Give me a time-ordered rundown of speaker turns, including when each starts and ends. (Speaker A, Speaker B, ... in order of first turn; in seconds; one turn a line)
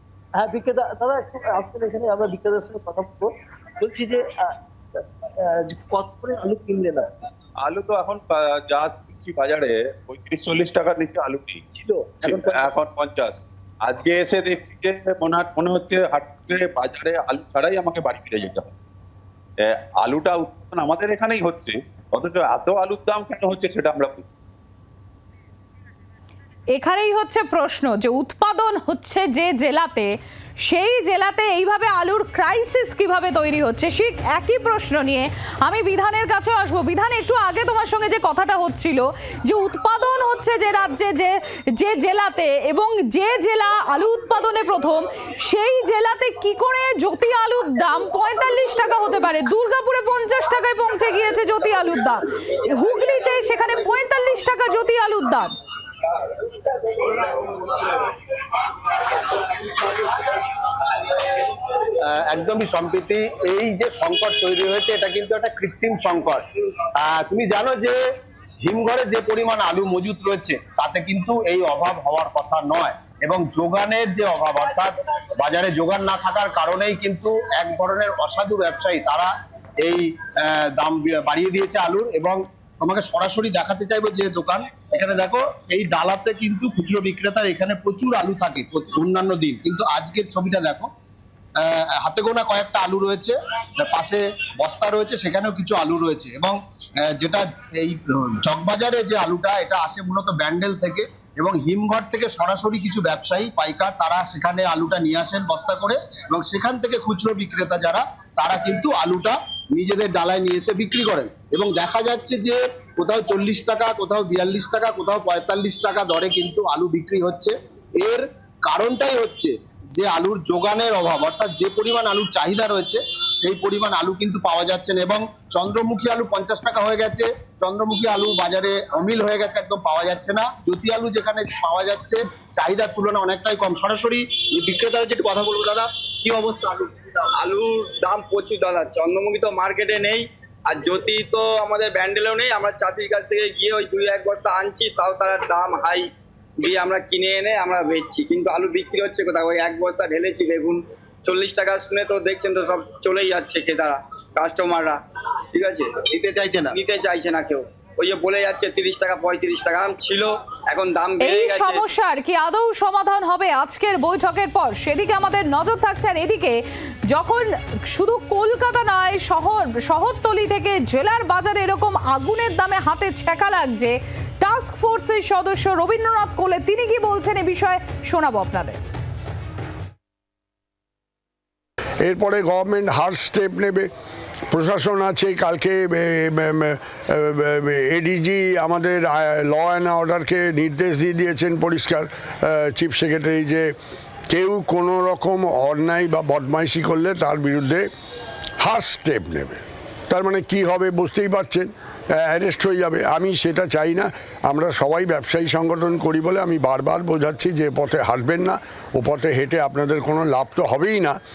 Speaker A: 0.4-7.2
Speaker B: 7.6-11.6
Speaker A: 11.8-12.7
Speaker B: 12.2-18.7
Speaker B: 19.6-24.3
Speaker C: 26.7-30.1
Speaker C: 30.6-55.5
Speaker D: 56.5-58.2
Speaker D: 59.2-61.4
Speaker D: 62.0-66.4
Speaker D: 67.0-68.0
Speaker D: 68.6-79.3
Speaker D: 79.8-90.9
Speaker D: 91.6-137.0
Speaker E: 137.4-155.0
Speaker E: 155.5-156.1
Speaker D: 156.2-156.8
Speaker E: 156.7-161.8
Speaker C: 161.2-166.6
Speaker C: 167.1-178.8
Speaker F: 182.0-183.9
Speaker F: 184.5-193.7
Speaker F: 194.3-197.8
Speaker F: 198.6-211.2